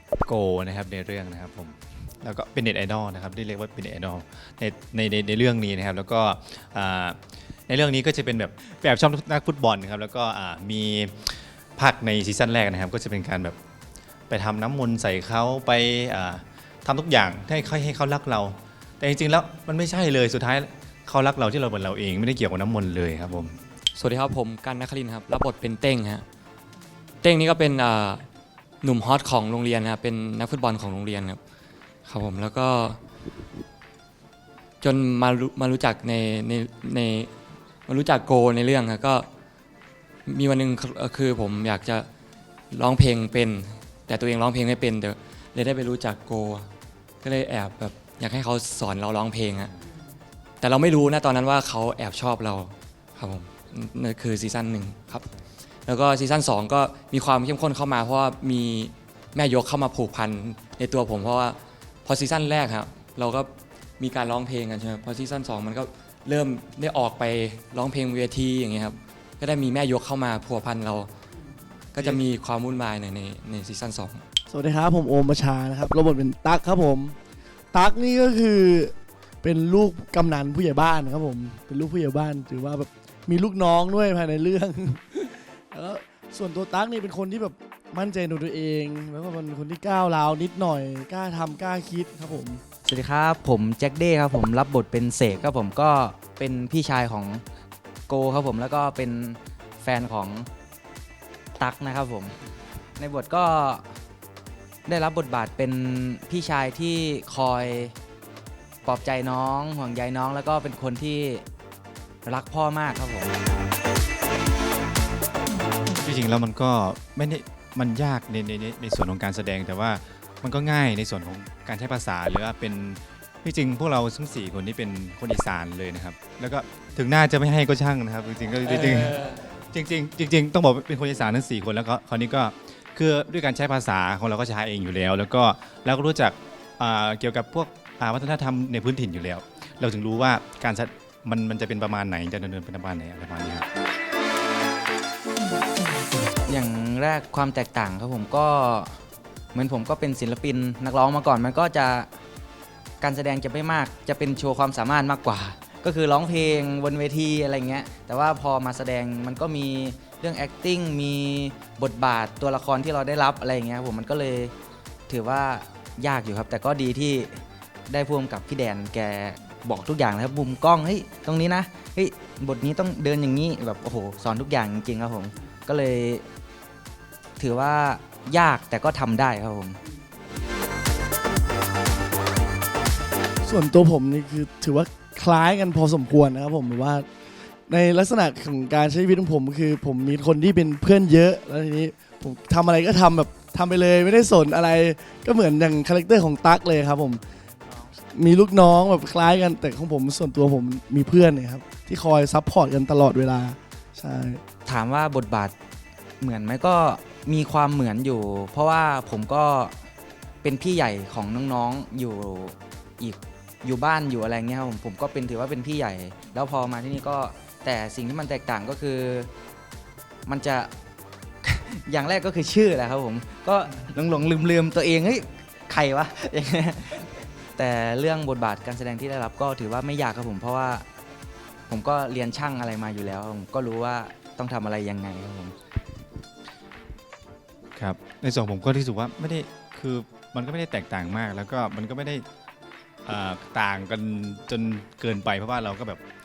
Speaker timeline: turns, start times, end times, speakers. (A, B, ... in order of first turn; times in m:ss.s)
0:00.2-0:07.2 A
0:07.7-0:13.6 A
0:14.3-0:23.6 A
0:23.9-0:26.2 B
0:27.2-0:28.2 B
0:28.8-0:31.4 B
0:32.0-0:33.0 B
0:34.8-0:37.3 B
0:37.9-0:39.2 B
0:40.2-0:42.1 B
0:42.7-0:46.7 B
0:47.2-0:49.7 B
0:50.6-0:55.3 B
0:55.8-1:11.1 B
1:11.9-1:14.2 B
1:14.5-1:17.2 C
1:17.7-1:32.6 C
1:32.8-1:37.4 D
1:38.1-1:40.5 D
1:41.6-1:42.4 D
1:43.0-1:43.9 D
1:44.8-1:48.0 D
1:48.8-1:51.5 D
1:52.2-1:53.3 D
1:56.0-2:23.6 A
2:08.6-2:09.4 B
2:26.4-2:29.0 D
2:29.5-2:32.1 D
2:33.0-2:44.5 D
2:45.1-2:56.2 D
2:57.4-2:59.8 D
3:03.4-3:07.1 C
3:07.7-3:17.2 C
3:18.1-3:24.4 C
3:24.6-3:25.5 D
3:26.2-3:29.8 D
3:30.4-3:39.3 D
3:40.2-3:40.7 D
3:41.4-3:50.8 D
3:51.7-3:55.6 D
3:57.8-4:02.2 A
4:03.0-4:06.0 A